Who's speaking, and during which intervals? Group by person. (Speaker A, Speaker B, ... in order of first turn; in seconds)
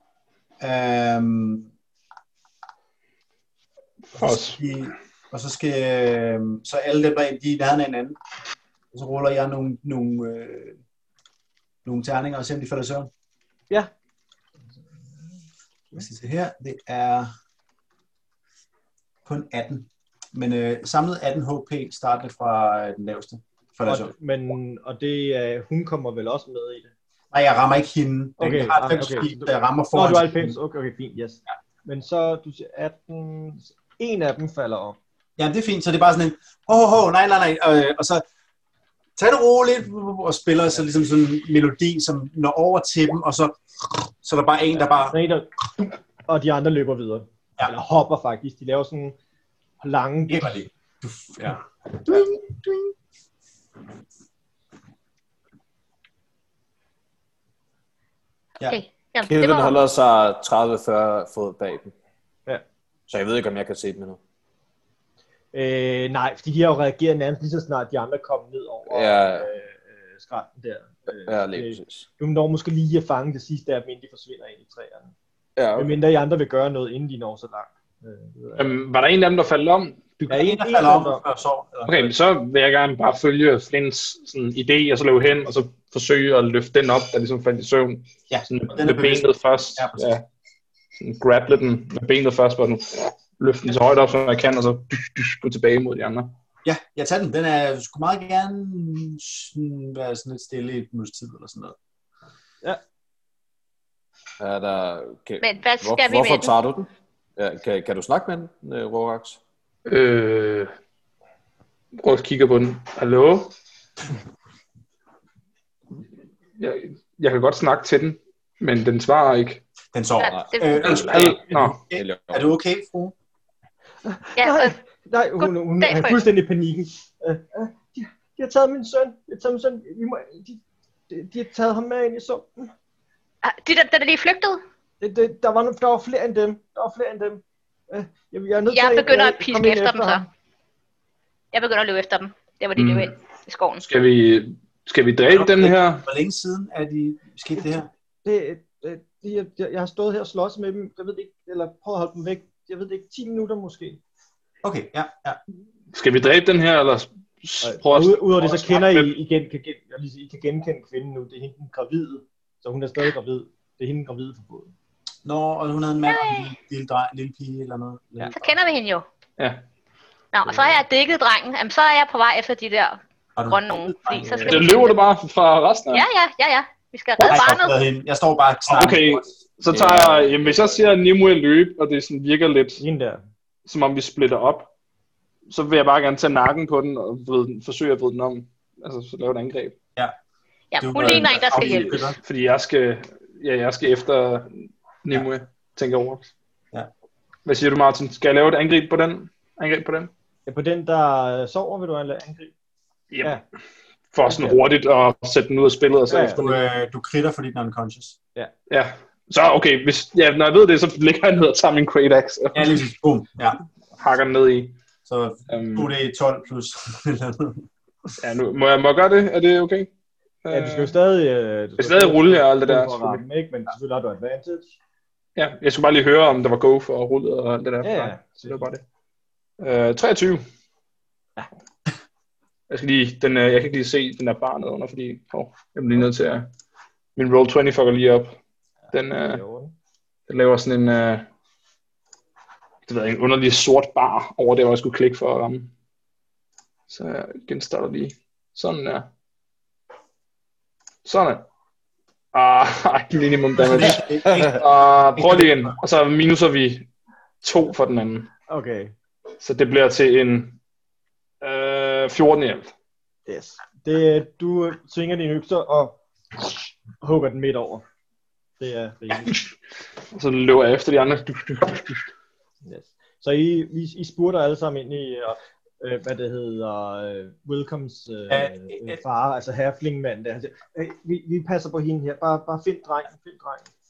Speaker A: 0.6-1.7, 4.2-8.2, 8.9-10.8, 11.8-13.1, 15.9-17.3, 19.2-24.1, 27.3-30.5, 35.4-38.2, 39.1-45.2, 50.3-52.9, 80.3-82.1, 88.3-90.1, 96.6-101.8, 119.9-123.1, 145.3-147.9, 154.6-155.4, 165.2-168.3, 173.3-174.6, 177.2-179.2, 190.8-192.2, 206.2-208.2, 212.5-213.6, 215.1-217.6, 253.6-255.8, 278.3-279.0
Speaker B: 4.1-4.6, 78.5-80.4, 81.9-90.2, 91.0-96.3, 109.8-110.7, 112.0-113.5, 116.6-119.6, 120.8-121.8, 142.8-143.1, 143.8-146.1, 155.9-159.1, 169.4-169.6, 174.4-176.0, 177.2-177.4, 178.7-182.8, 183.7-184.7, 185.5-189.7, 191.5-196.3, 197.4-200.1, 203.1-203.4, 204.1-206.6, 208.7-212.7, 214.0-214.7, 215.5-215.9, 218.2-219.9, 220.4-220.9, 221.8-223.2, 225.3-228.8, 229.6-230.4, 232.7-236.5, 237.2-238.3, 238.9-239.4, 240.3-241.2, 242.9-245.7, 246.9-249.1, 251.0-251.4, 252.3-256.9, 257.4-258.3, 259.4-260.6, 261.4-262.7, 270.1-272.1
Speaker C: 23.9-26.9, 28.4-35.0, 45.1-49.1, 49.8-50.6, 65.5-75.1, 75.7-78.7, 80.3-81.2, 124.0-132.7, 135.0-140.3, 148.2-154.0, 157.6-164.7, 182.8-183.2, 200.5-202.5, 204.2-204.6, 206.1-206.4, 220.5-224.8, 227.8-228.7, 238.9-239.7, 258.5-258.9, 263.3-267.8, 268.6-269.4, 272.6-283.7
Speaker D: 58.6-59.8, 105.4-106.5, 120.2-120.8, 124.4-124.7, 125.4-126.2, 133.4-134.6, 138.7-140.2, 141.5-143.8, 166.1-166.5, 168.3-169.0, 170.3-174.9, 175.9-177.8, 190.7-192.2
Speaker E: 59.2-61.9, 63.1-64.2, 68.9-69.5, 71.2-72.0, 75.6-76.0, 104.4-109.4, 120.3-122.5, 179.7-180.3, 254.2-254.6